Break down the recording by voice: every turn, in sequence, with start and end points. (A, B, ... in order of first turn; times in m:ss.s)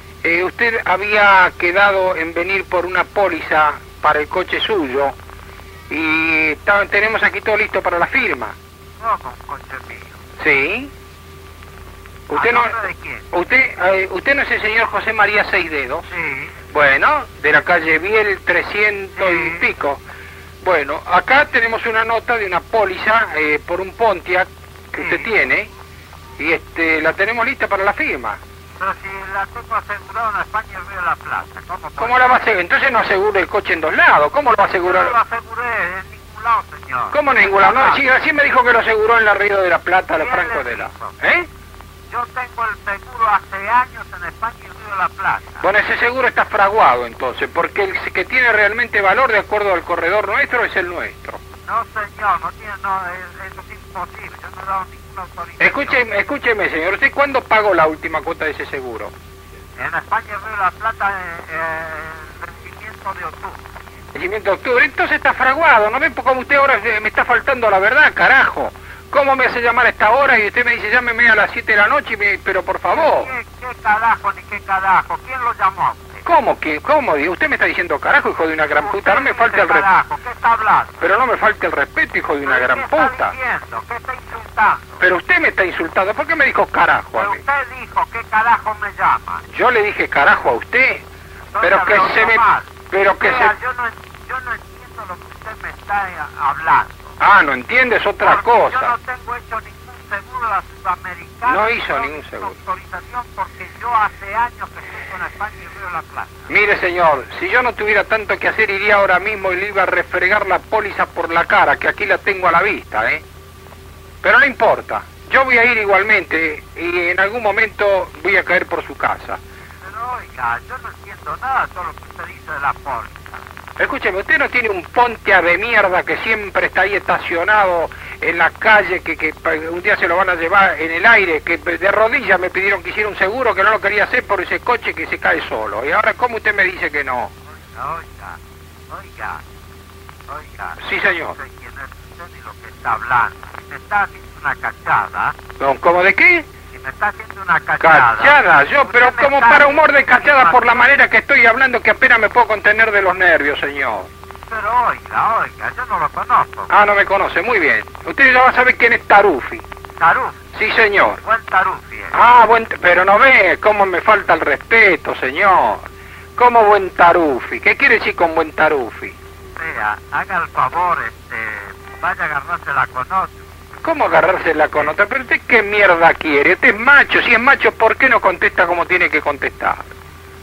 0:00.2-0:05.2 A
0:05.9-0:08.6 A
0:09.0-0:10.2 B
0:10.4-0:10.9 A
0:12.3-0:12.8 A
0:12.3-0:13.3 B
0:13.3-0:16.1 A
0:16.1-0:16.5 B
0:16.7-0:20.0 A
0:19.2-0:19.7 B
0:20.6-0:25.7 A
0:25.0-0:25.3 B
0:26.4-0:28.4 A
0:28.8-0:32.4 B
0:32.0-0:35.2 A
0:34.7-0:38.0 B
0:37.1-0:41.5 A
0:40.2-0:41.2 B
0:42.1-0:45.7 B
0:45.6-0:51.4 A
0:51.6-0:56.0 B
0:55.6-0:59.1 A
0:59.8-1:03.6 B
1:04.1-1:13.3 A
1:12.9-1:16.2 B
1:16.2-1:19.9 A
1:18.7-1:21.0 B
1:21.0-1:23.4 A
1:22.4-1:25.0 B
1:25.0-1:27.4 A
1:27.2-1:29.5 B
1:29.5-1:31.0 A
1:31.5-1:37.2 B
1:31.6-1:33.6 A
1:37.2-1:38.9 A
1:38.2-1:46.5 B
1:41.5-1:42.6 A
1:46.5-1:53.2 A
1:54.2-1:59.4 A
1:59.8-2:03.4 B
2:03.8-2:17.3 A
2:17.6-2:19.4 B
2:20.3-2:25.4 B
2:20.8-2:21.4 A
2:25.6-2:26.5 A
2:26.7-2:30.9 B
2:27.8-2:34.1 A
2:34.5-2:36.7 B
2:36.7-2:39.6 A
2:40.0-2:40.4 B
2:40.5-2:41.2 A
2:41.2-2:42.2 B
2:42.1-2:45.8 A
2:46.4-2:49.2 A
2:49.6-2:53.4 B
2:53.8-2:59.8 A